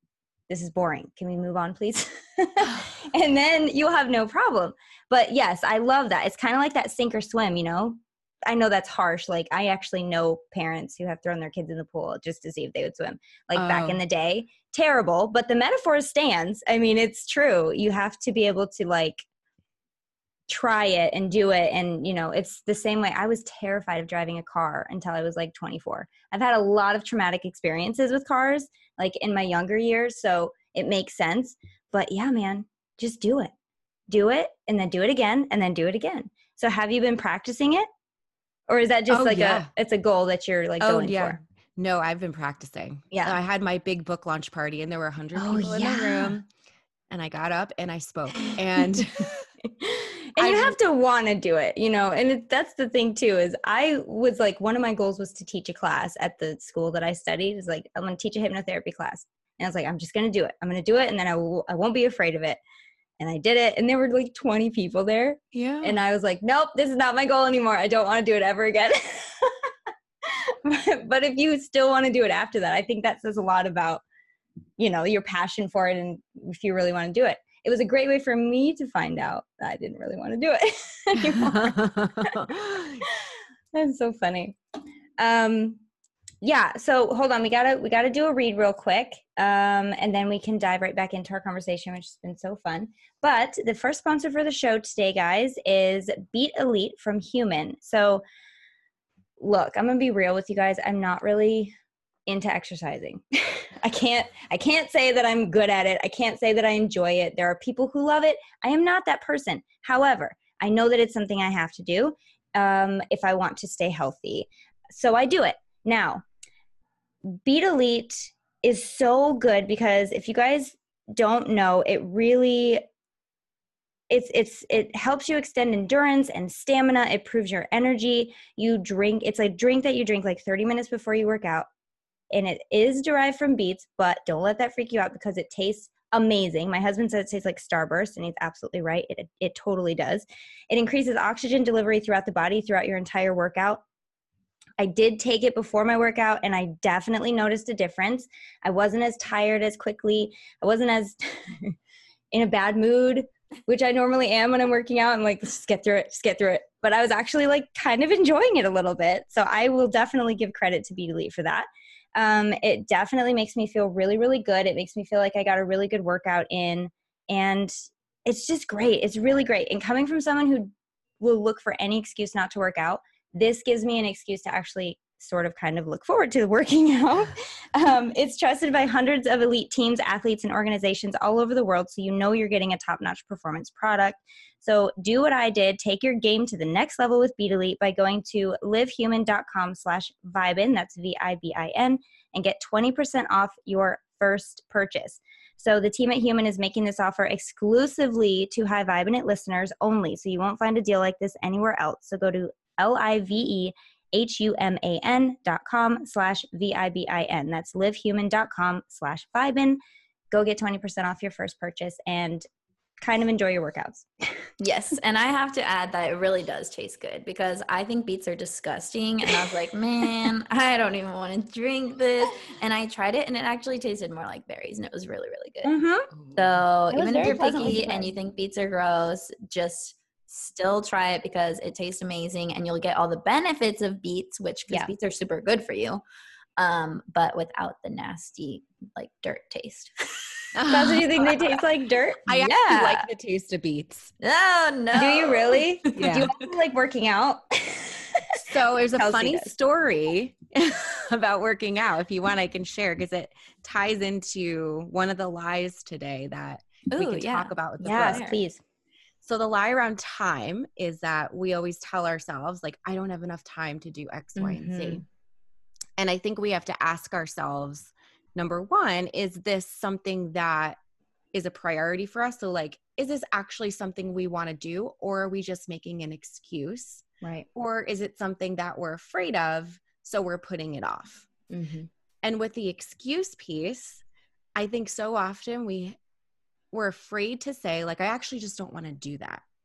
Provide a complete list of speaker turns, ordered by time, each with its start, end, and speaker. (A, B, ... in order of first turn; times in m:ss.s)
0:00.5-0:19.2 A
0:13.5-0:14.0 B
0:20.5-0:33.5 A
0:34.1-0:37.9 A
0:38.7-0:41.4 A
0:39.1-0:39.7 B
0:40.8-0:46.5 B
0:43.1-0:43.4 A
0:45.4-0:46.4 A
0:47.1-0:49.5 B
0:49.8-1:02.6 A
0:50.4-0:50.8 B
1:03.2-1:09.7 A
1:05.5-1:06.0 B
1:10.2-1:14.0 A
1:14.8-1:24.6 A
1:21.2-1:23.0 B
1:25.2-1:25.8 A
1:26.4-1:38.2 A
1:39.4-1:41.8 A
1:42.3-1:56.2 A
1:57.2-2:02.8 A
2:04.1-2:11.7 A
2:12.3-2:23.8 A
2:24.8-2:31.8 A
2:32.3-3:29.8 A
3:30.3-3:32.5 A
3:33.0-3:34.1 A
3:34.6-3:45.8 C
3:45.6-3:46.1 A
3:46.1-3:46.4 B
3:46.4-3:56.0 C
3:46.9-3:48.1 A
3:56.6-4:00.2 C
4:00.6-4:01.3 B
4:00.7-4:03.1 A
4:02.3-4:04.1 B
4:04.2-4:06.3 C
4:04.9-4:08.4 A
4:06.0-4:06.3 B
4:08.4-4:18.3 B
4:09.0-4:09.5 A
4:16.9-4:18.4 C
4:17.8-4:18.6 A
4:19.2-4:25.0 B
4:24.4-4:25.0 A
4:26.0-4:30.8 B
4:31.3-4:41.3 B
4:37.2-4:37.5 A
4:41.5-4:41.9 A
4:42.2-4:44.0 B
4:44.6-4:46.0 B
4:46.7-4:49.4 B